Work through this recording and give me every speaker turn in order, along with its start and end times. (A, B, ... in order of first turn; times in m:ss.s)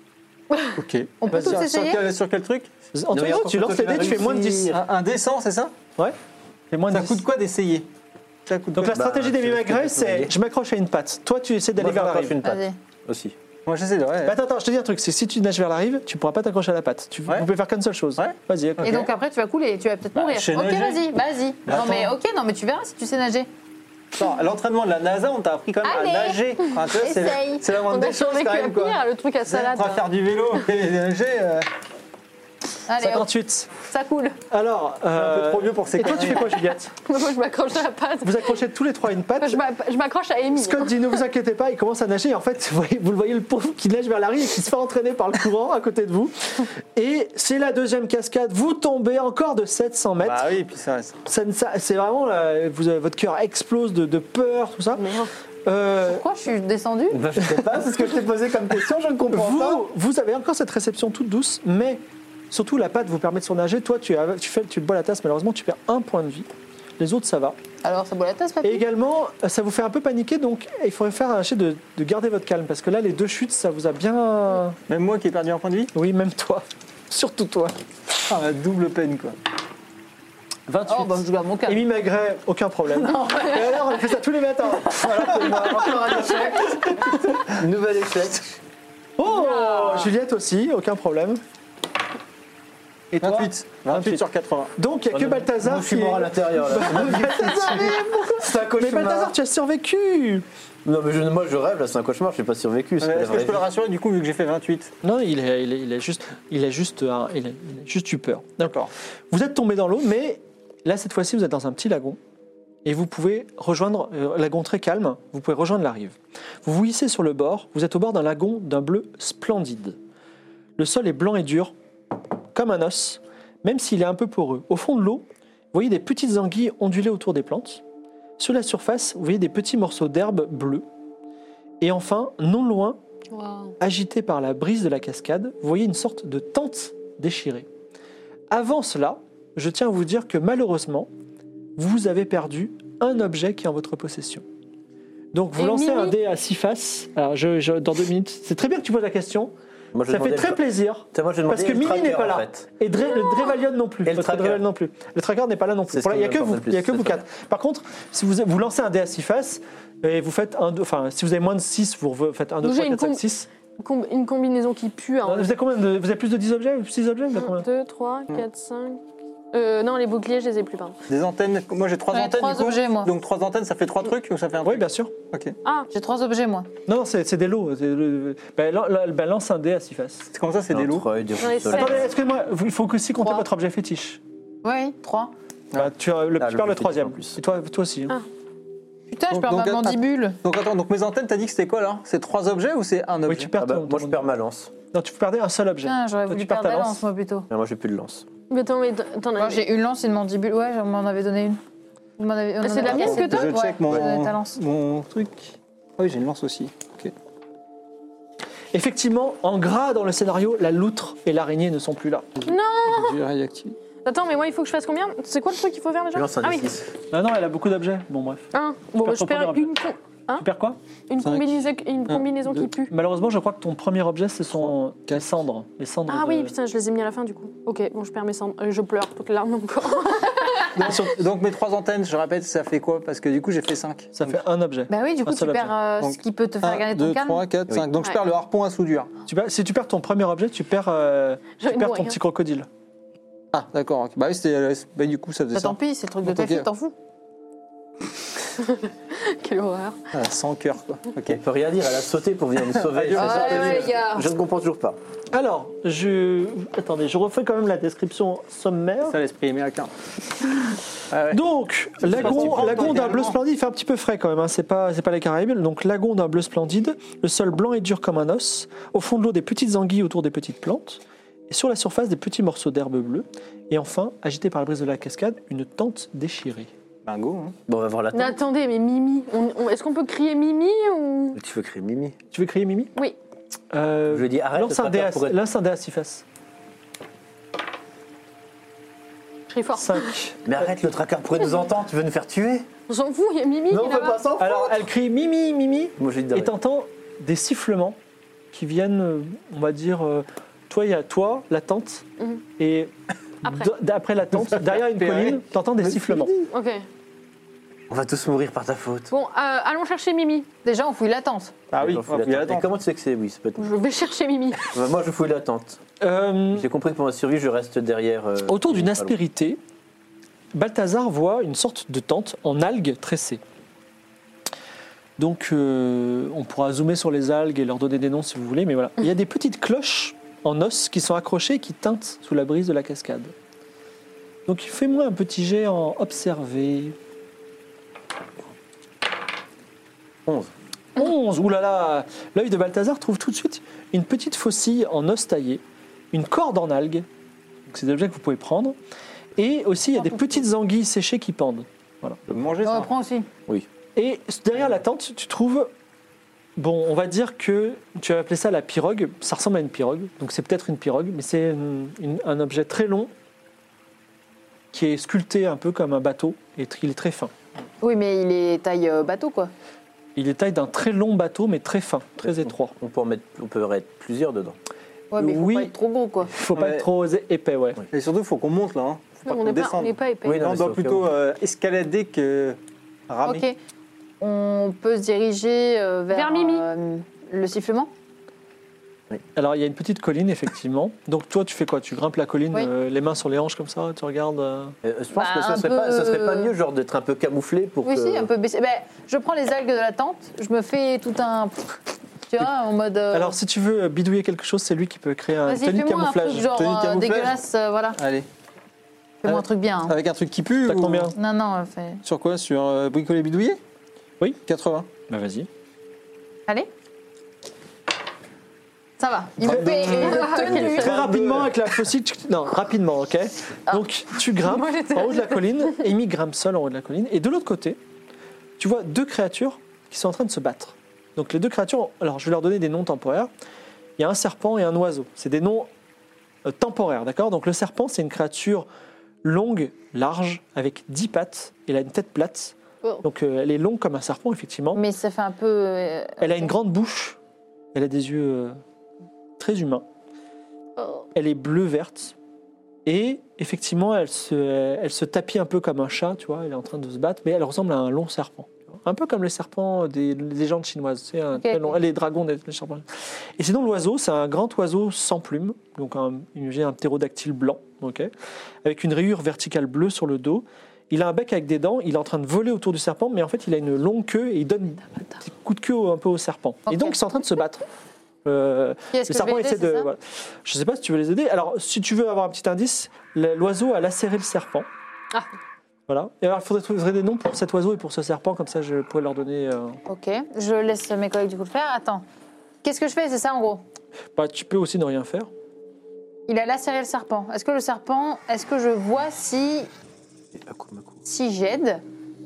0:00.7-0:02.7 A
0:01.2-0:02.0 B
0:01.3-0:01.6 C
0:02.9-0:04.8 C
0:03.1-0:04.8 D
0:04.7-0:05.7 A
0:06.7-0:07.2 C
0:06.9-0:07.9 A
0:08.5-0:09.0 A
0:08.7-0:12.4 C
0:08.9-0:10.3 D
0:11.8-0:13.4 D
0:12.4-0:12.8 B
0:13.6-0:14.4 A
0:14.2-0:19.0 C
0:18.2-0:19.1 A
0:18.8-0:23.5 B
0:20.1-0:21.0 A
0:21.7-0:22.1 A
0:24.1-0:31.7 A
0:25.8-0:27.6 B
0:27.8-0:30.0 E
0:32.9-0:33.3 B
0:33.0-0:33.7 C
0:33.8-0:34.4 B
0:34.5-0:36.9 C
0:35.1-0:36.6 A
0:36.2-0:38.5 E
0:38.2-0:39.6 C
0:39.4-0:41.1 E
0:40.6-0:50.5 C
0:50.2-0:51.2 A
0:51.2-0:55.1 C
0:55.0-0:55.3 E
0:55.6-0:56.2 C
0:56.1-0:57.2 B
0:57.1-0:59.8 D
0:59.3-1:07.6 C
1:07.8-1:08.8 B
1:08.6-1:14.8 C
1:14.9-1:15.9 A
1:15.9-1:17.7 C
1:18.3-1:19.4 A
1:20.7-1:27.2 C
1:20.9-1:21.8 B
1:23.0-1:24.0 B
1:25.0-1:26.8 B
1:25.4-1:26.3 D
1:27.4-1:28.6 D
1:29.2-1:31.4 C
1:29.4-1:30.0 E
1:33.1-1:34.2 C
1:33.2-1:34.7 A
1:34.8-1:40.4 C
1:35.1-1:39.3 D
1:40.8-1:43.6 D
1:43.0-1:44.9 A
1:45.0-1:52.2 C
1:48.6-1:48.9 A
1:52.8-2:00.0 C
2:00.8-2:01.7 C
2:02.5-2:07.8 C
2:08.4-2:10.8 C
2:11.8-2:13.0 C
2:13.3-2:13.7 E
2:13.8-2:17.7 C
2:18.5-2:21.1 C
2:21.8-2:24.4 C
2:25.3-2:29.5 C
2:25.6-2:26.2 E
2:29.9-2:32.6 D
2:30.1-2:43.4 C
2:34.0-2:34.6 D
2:35.9-2:37.2 D
2:42.6-2:43.2 E
2:43.8-2:45.5 E
2:45.2-2:47.7 C
2:47.4-2:49.0 E
2:49.5-2:51.0 E
2:51.1-2:55.6 A
2:52.1-2:53.1 B
2:54.6-2:55.1 C
2:55.9-2:56.7 B
2:56.9-3:00.3 C
3:00.3-3:01.1 A
3:00.7-3:02.1 D
3:01.4-3:02.0 E
3:01.7-3:04.2 C
3:04.6-3:05.3 B
3:05.7-3:08.2 C
3:06.4-3:07.4 D
3:09.1-3:10.4 B
3:09.3-3:13.5 A
3:13.2-3:14.3 C
3:13.6-3:14.7 D
3:14.9-3:17.0 C
3:15.8-3:17.5 B
3:17.5-3:18.2 D
3:18.5-3:19.6 E
3:19.4-3:21.6 B
3:22.2-3:24.6 B
3:22.6-3:23.6 E
3:22.8-3:27.1 A
3:28.7-3:32.4 C
3:32.4-3:33.8 A
3:32.4-3:33.2 E
3:34.0-3:36.7 E
3:36.1-3:36.9 D
3:37.1-3:39.8 C
3:38.5-3:40.4 E
3:40.3-3:40.8 C
3:41.1-3:42.9 E
3:41.2-3:41.5 A
3:42.8-3:46.5 C
3:46.1-3:50.9 E
3:50.7-3:54.4 A
3:50.8-3:51.2 C
3:54.1-3:55.7 C
3:54.9-3:57.4 B
3:56.0-3:59.1 A
3:59.3-4:02.7 C
4:01.6-4:02.2 E
4:03.5-4:06.7 A
4:05.5-4:06.9 B
4:08.6-4:10.0 E
4:10.1-4:11.4 A
4:11.3-4:15.0 D
4:12.7-4:13.9 A
4:13.2-4:14.3 B
4:15.3-4:19.2 C
4:19.0-4:19.9 A
4:21.1-4:21.4 A
4:21.3-4:36.7 C
4:22.0-4:23.4 A
4:22.1-4:23.0 D
4:37.0-4:37.6 A
4:37.7-4:38.4 D
4:38.1-4:41.4 E
4:41.3-4:42.2 D
4:42.3-4:42.9 C
4:43.7-4:46.2 C
4:44.1-4:45.4 D
4:49.5-4:50.1 E
4:49.7-4:50.6 C
4:50.4-4:52.7 D
4:52.9-4:54.2 E
4:53.7-4:54.8 D
4:54.4-4:58.0 C
4:56.0-4:56.5 D
4:58.5-5:02.0 C
5:02.6-5:02.9 C
5:03.4-5:06.3 C
5:04.4-5:06.5 A
5:06.5-5:06.8 E
5:07.9-5:09.1 D
5:09.1-5:10.5 E
5:10.6-5:11.6 B
5:11.7-5:12.7 A
5:11.7-5:13.7 D
5:13.6-5:14.7 E
5:14.6-5:15.8 D
5:16.0-5:16.7 C
5:16.5-5:19.2 D
5:18.5-5:19.6 C
5:20.5-5:23.4 C
5:25.2-5:33.3 C
5:34.5-5:36.9 C
5:40.2-5:40.5 D
5:41.0-5:47.0 C
5:47.7-5:48.8 C
5:49.4-5:52.2 C
5:52.3-5:52.9 A
5:52.6-5:53.3 B
5:54.0-5:55.7 C
5:56.6-6:03.1 C
6:04.7-6:07.3 C
6:07.8-6:09.5 B
6:10.2-6:12.7 C
6:12.2-6:14.6 D
6:15.1-6:16.3 B
6:15.2-6:15.7 C
6:16.3-6:17.8 C
6:16.5-6:16.9 A
6:17.9-6:22.6 A
6:19.3-6:20.4 E
6:20.2-6:21.1 D
6:23.1-6:23.5 A
6:23.2-6:23.6 B
6:24.2-6:27.9 B
6:26.1-6:26.6 E
6:29.3-6:34.8 C
6:34.8-6:38.3 D
6:35.1-6:36.5 B
6:37.8-6:41.8 B
6:42.3-6:43.4 B
6:43.1-6:46.5 C
6:45.4-6:48.0 B
6:46.4-6:47.4 A
6:48.0-6:48.2 A
6:49.2-6:50.0 B
6:49.2-6:51.1 A
6:50.7-6:51.1 C
6:51.1-6:52.0 B
6:52.0-6:53.6 A
6:54.4-6:54.9 A
6:55.1-6:55.5 C
6:59.0-7:00.9 B
6:59.4-7:07.8 C
6:59.4-7:01.5 D
6:59.8-7:00.9 E
7:04.5-7:05.2 B
7:08.6-7:13.3 C
7:14.0-7:15.7 C
7:16.4-7:18.7 C
7:19.2-7:24.8 C
7:24.7-7:26.5 B
7:26.2-7:27.2 C
7:27.7-7:28.6 C
7:29.4-7:29.8 C
7:30.8-7:31.0 E
7:31.1-7:32.1 C
7:32.8-7:42.8 C
7:41.3-7:41.8 B
7:43.4-7:48.1 C
7:48.6-7:57.6 C
7:56.7-7:57.0 B
7:58.2-8:04.7 C
7:58.9-7:59.9 B
8:05.9-8:09.8 C
8:09.9-8:12.0 B
8:12.6-8:13.6 B
8:14.2-8:15.3 C
8:16.3-8:19.7 B
8:20.3-8:21.0 D
8:21.0-8:21.8 B